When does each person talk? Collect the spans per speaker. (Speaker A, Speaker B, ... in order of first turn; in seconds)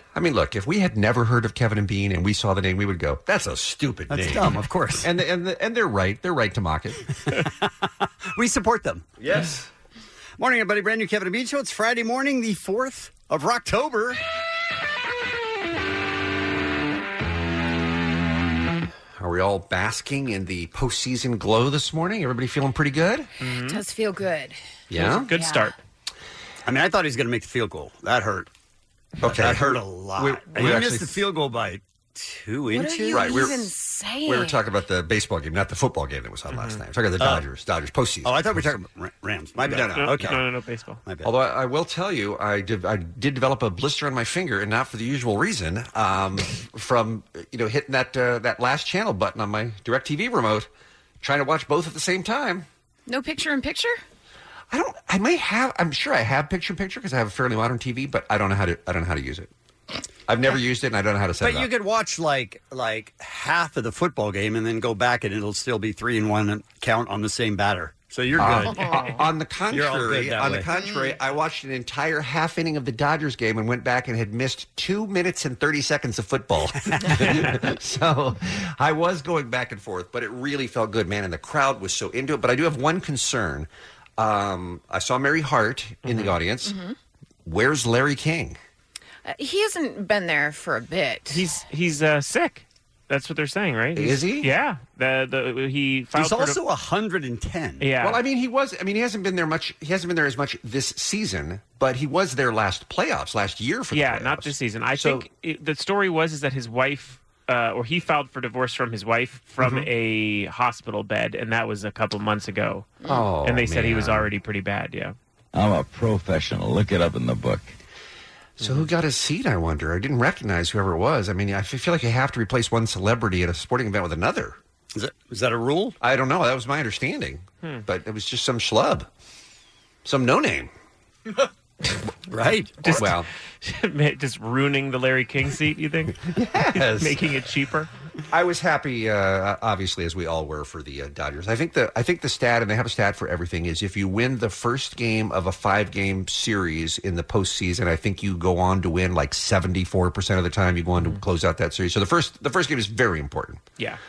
Speaker A: 0.1-7.0, 9.2-9.6, 19.2-23.3, 24.9-25.3, 29.2-31.2, 33.1-33.7, 34.2-38.6, 39.6-40.4, 41.2-50.7, 51.2-52.7, 54.7-59.5, 60.3-61.7, 68.4-86.8, 87.4-88.6, 93.9-94.5, 98.0-105.2, 109.6-109.9, 113.0-114.3, 118.6-124.6, 126.0-129.1, 130.0-130.7, 132.9-133.3, 136.3-137.2, 138.3-153.6
Speaker B: 4.1-5.1, 8.3-9.1, 10.4-14.2, 26.6-28.5, 29.2-33.5, 37.2-37.4, 38.2-40.4, 41.0-41.3, 61.4-68.8, 69.7-70.7, 96.1-97.9, 124.9-125.9, 132.3-133.1
Speaker C: 23.4-23.8, 24.9-25.7, 36.5-36.8, 39.6-41.0, 68.4-69.2, 86.0-86.3, 91.3-96.6, 97.8-98.2, 103.9-115.1, 118.6-118.8, 132.8-136.2, 136.7-137.9
Speaker D: 23.6-25.7, 32.7-34.6, 53.1-54.0, 68.7-69.1, 70.8-71.1, 86.6-86.9, 89.2-91.4
Speaker E: 115.5-117.7